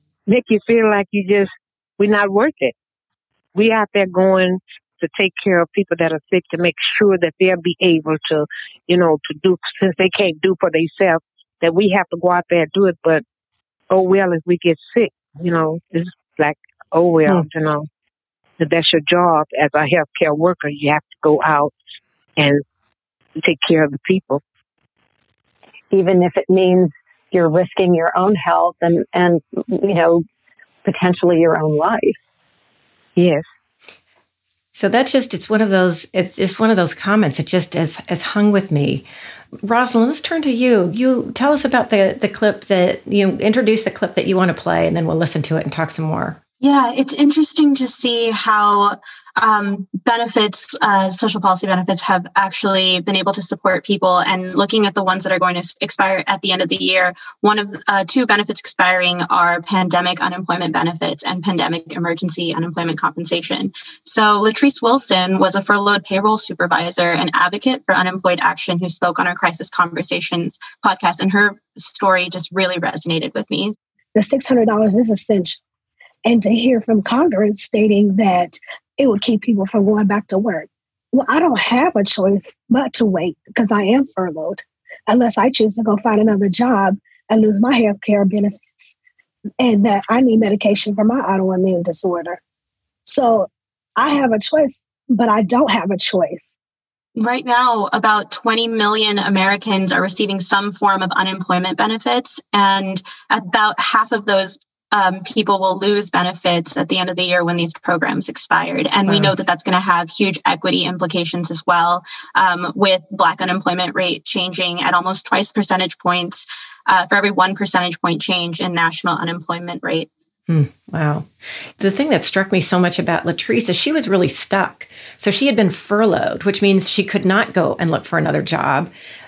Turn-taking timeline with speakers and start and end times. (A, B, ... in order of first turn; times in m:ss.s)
0:00.3-0:02.7 A
0:03.6-0:13.2 A
0:13.9-0:17.9 A
0:18.6-0:21.7 A
0:22.4-0:22.6 A
0:23.4-0:24.4 A
0:25.9-0:30.2 B
0:30.8-0:32.2 B
0:33.2-0:33.4 A
0:34.7-0:39.0 C
0:39.6-0:46.4 C
0:46.6-1:13.8 D
1:14.2-1:15.6 E
1:16.3-1:29.0 E
1:29.6-1:32.4 E
1:33.1-1:36.6 E
1:37.2-2:00.1 D
1:49.1-1:49.3 C
2:00.5-2:01.3 C
2:01.8-2:08.9 C